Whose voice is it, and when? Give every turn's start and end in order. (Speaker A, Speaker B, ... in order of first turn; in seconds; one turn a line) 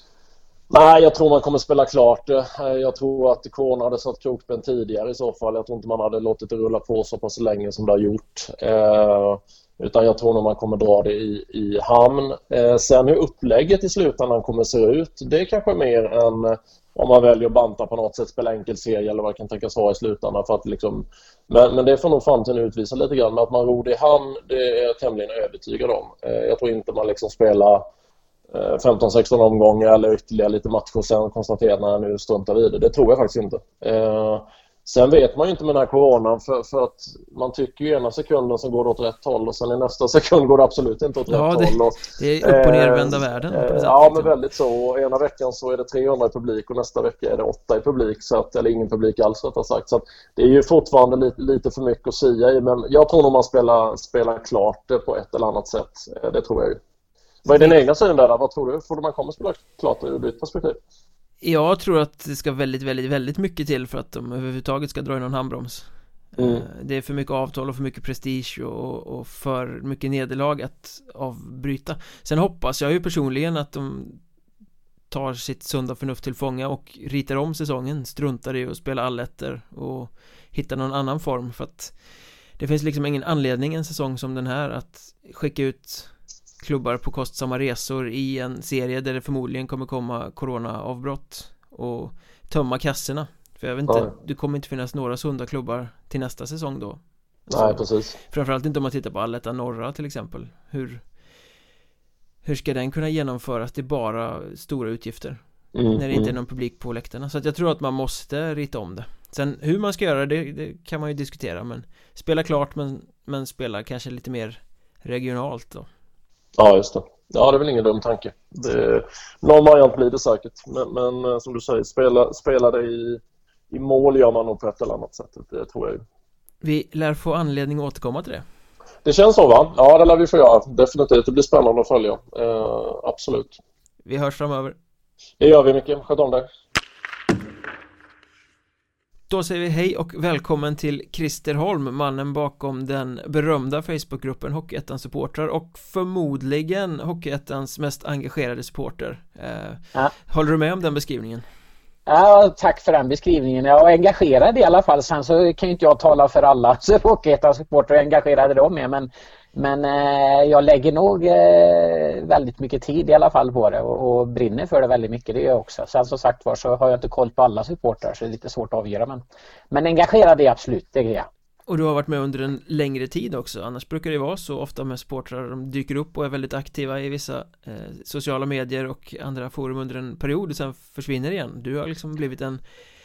Speaker A: 0.7-27.9
Speaker A: 28.5-56.8
Speaker B: 41.3-44.3
Speaker A: 57.5-60.8
Speaker B: 61.4-74.2
Speaker A: 66.4-66.7
Speaker B: 75.1-82.0
Speaker B: 82.6-86.1
Speaker B: 86.6-101.0
Speaker A: 97.5-98.2
Speaker B: 102.4-105.4
Speaker A: 105.7-106.3
Speaker B: 105.9-115.9
Speaker A: 116.6-126.0
Speaker B: 126.6-128.4
Speaker A: 129.1-133.6
Speaker B: 134.1-134.8
Speaker A: 135.4-136.5
Speaker B: 139.3-151.4
Speaker C: 152.1-171.3
Speaker B: 171.7-182.6